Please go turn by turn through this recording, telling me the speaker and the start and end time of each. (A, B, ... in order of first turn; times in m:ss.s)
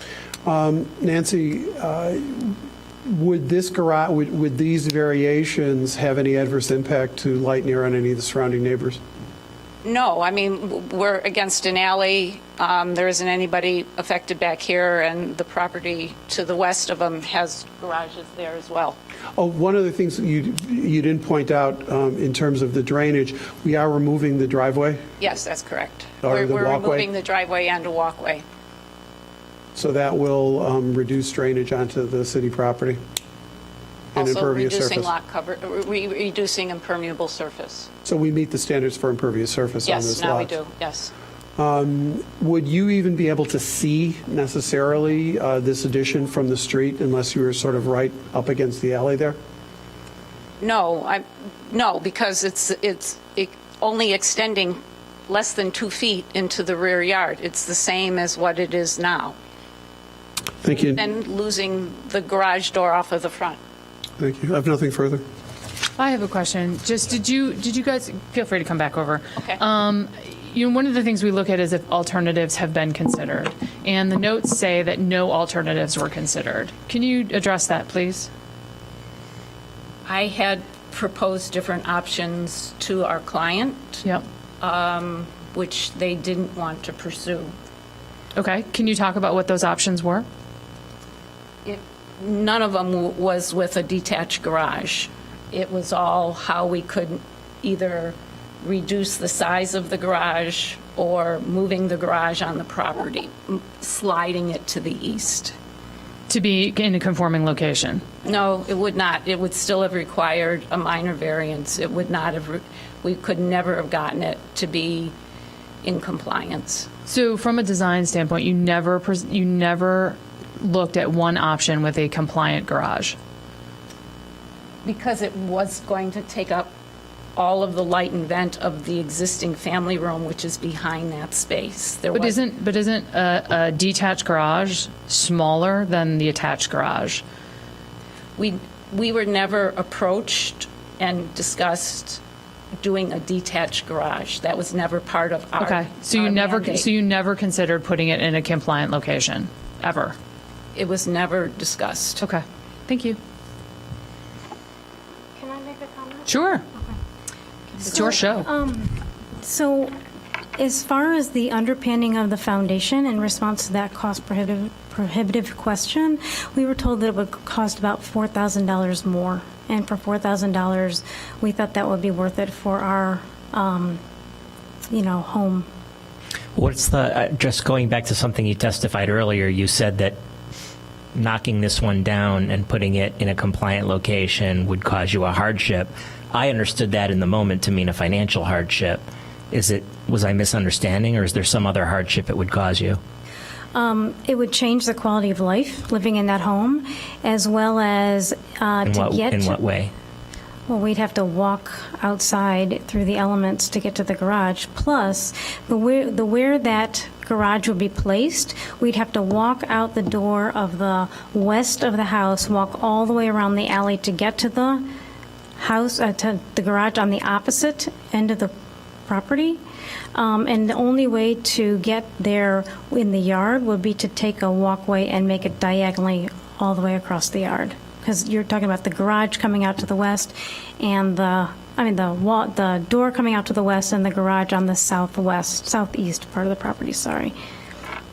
0:00.4-0:09.0 A
0:09.8-0:19.0 B
0:19.4-0:25.0 A
0:25.2-0:28.4 B
0:26.2-0:27.1 A
0:29.7-0:33.0 A
0:34.1-0:35.1 A
0:34.1-0:37.9 B
0:38.0-0:40.5 A
0:39.8-0:41.1 B
0:41.6-0:49.4 A
0:50.6-0:59.4 B
1:00.6-1:01.0 A
1:00.9-1:03.6 B
1:04.2-1:05.2 A
1:06.0-1:18.3 C
1:20.0-1:24.0 B
1:24.6-1:27.5 B
1:28.4-1:30.2 C
1:31.6-1:45.5 B
1:46.3-1:48.0 C
1:48.2-1:55.1 B
1:55.8-1:56.9 B
1:57.0-2:03.2 C
2:04.8-2:06.7 B
2:07.4-2:12.4 B
2:12.1-2:17.2 C
2:18.4-2:22.2 B
2:22.7-2:26.9 B
2:25.6-2:30.2 C
2:30.7-2:32.2 B
2:32.2-2:33.2 C
2:35.4-2:36.9 D
2:36.2-2:36.6 C
2:37.7-2:39.9 D
2:37.8-2:38.5 C
2:40.6-2:54.0 D
2:54.9-2:55.7 D
2:56.6-3:00.2 E
3:01.1-3:13.0 E
3:13.7-3:19.6 D
3:18.8-3:19.9 E
3:20.7-3:34.9 D
3:35.6-3:38.5 D
3:39.1-3:39.6 D
3:40.1-3:57.3 D